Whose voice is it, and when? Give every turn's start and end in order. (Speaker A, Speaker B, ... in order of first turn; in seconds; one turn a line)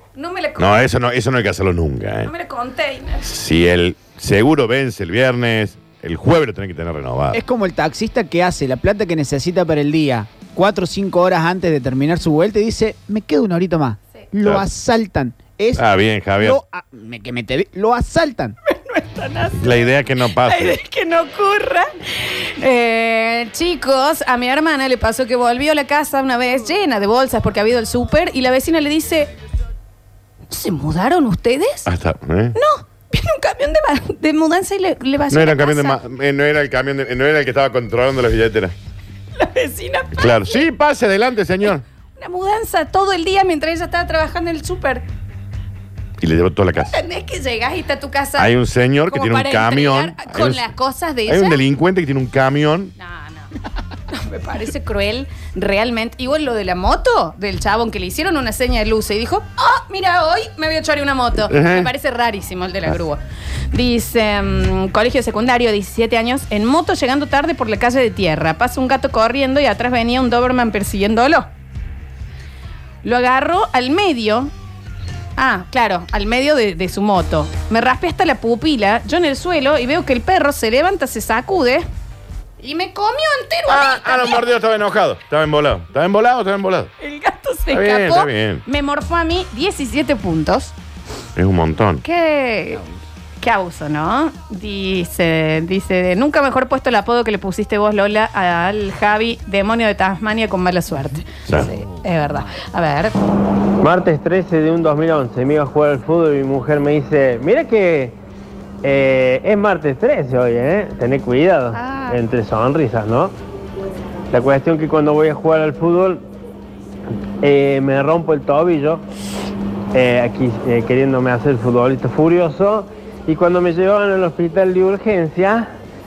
Speaker A: 0.1-0.8
Speaker B: 0.6-2.3
Speaker A: 2.2-3.3
Speaker B: 3.2-7.4
Speaker C: 7.3-15.8
Speaker B: 15.8-16.6
Speaker C: 16.4-18.6
Speaker A: 18.7-19.9
Speaker B: 19.6-20.8
Speaker A: 20.4-29.3
Speaker A: 30.5-31.9
Speaker B: 31.9-32.6
Speaker A: 32.5-36.0
Speaker B: 35.3-38.7
Speaker A: 39.4-40.6
Speaker B: 40.2-41.8
Speaker A: 42.2-45.0
Speaker B: 46.2-47.0
Speaker A: 46.8-48.5
Speaker B: 48.4-50.7
Speaker A: 49.1-51.6
Speaker B: 51.3-52.9
Speaker A: 53.0-53.5
Speaker A: 54.1-71.5
Speaker B: 61.5-61.9
Speaker A: 73.0-74.5
Speaker A: 75.4-81.9
Speaker A: 82.6-84.5
Speaker B: 83.7-86.9
Speaker A: 87.0-90.7
Speaker B: 87.7-88.6
Speaker B: 91.4-92.0
Speaker A: 92.0-92.8
Speaker A: 93.4-103.1
Speaker D: 103.8-108.2
Speaker D: 108.8-113.3
Speaker A: 111.7-112.2
Speaker D: 114.3-116.3
Speaker D: 117.4-119.0
Speaker D: 119.9-125.7